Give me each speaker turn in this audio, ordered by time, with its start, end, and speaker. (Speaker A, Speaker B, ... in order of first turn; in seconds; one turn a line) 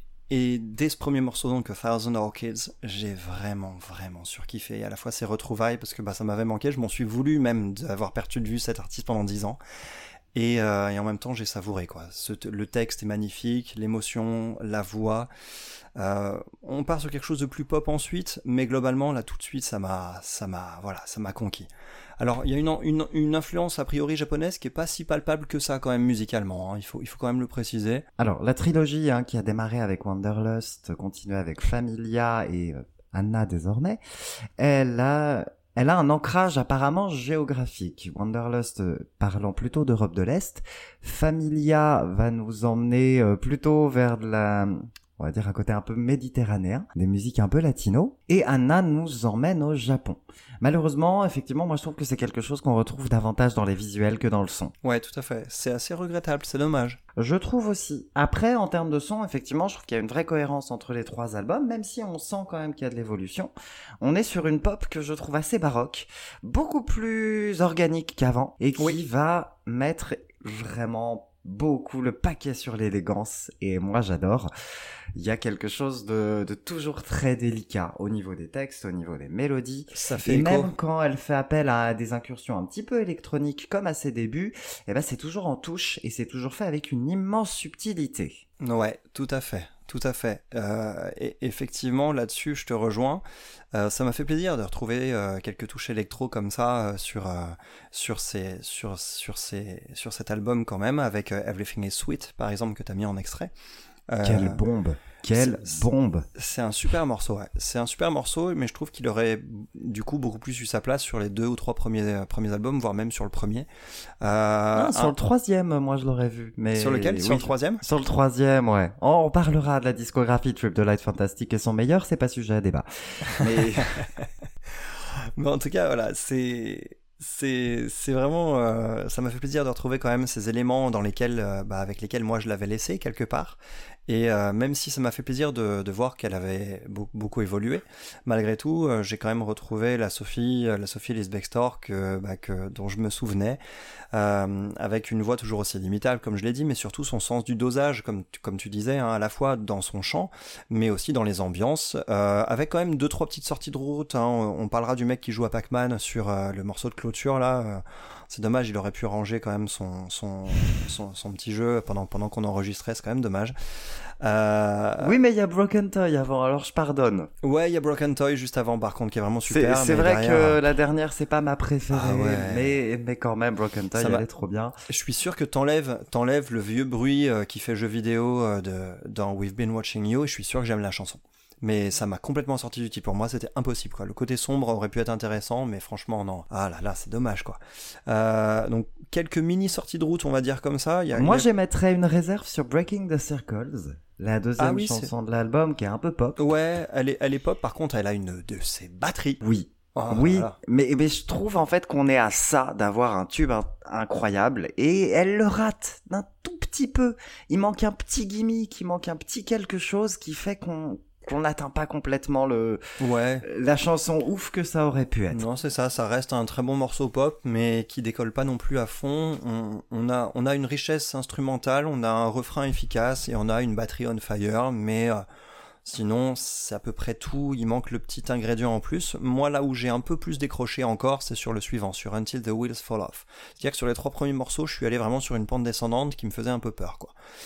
Speaker A: 0.3-9.6
Speaker A: 10.3-15.3
Speaker A: 15.9-21.7
Speaker A: 22.2-28.0
Speaker B: 28.2-34.0
Speaker B: 34.6-54.7
Speaker A: 54.8-57.0
Speaker B: 57.1-74.5
Speaker B: 75.1-88.4
Speaker A: 79.9-80.7
Speaker A: 88.6-103.5
Speaker A: 104.1-104.6
Speaker B: 104.2-106.2
Speaker A: 105.2-113.7
Speaker A: 114.2-115.1
Speaker B: 114.7-124.0
Speaker A: 116.7-117.8
Speaker A: 123.6-124.2
Speaker A: 125.3-143.6
Speaker A: 144.1-165.2
Speaker B: 165.0-167.3
Speaker A: 167.4-170.6
Speaker B: 169.5-174.7
Speaker A: 171.9-172.8
Speaker A: 173.9-174.2
Speaker A: 174.9-191.5
Speaker B: 191.1-196.5
Speaker A: 194.6-195.1
Speaker A: 196.4-199.4
Speaker B: 199.4-212.8
Speaker A: 199.9-200.6
Speaker A: 213.0-213.4
Speaker B: 213.4-215.4
Speaker A: 215.3-225.2
Speaker A: 225.8-237.1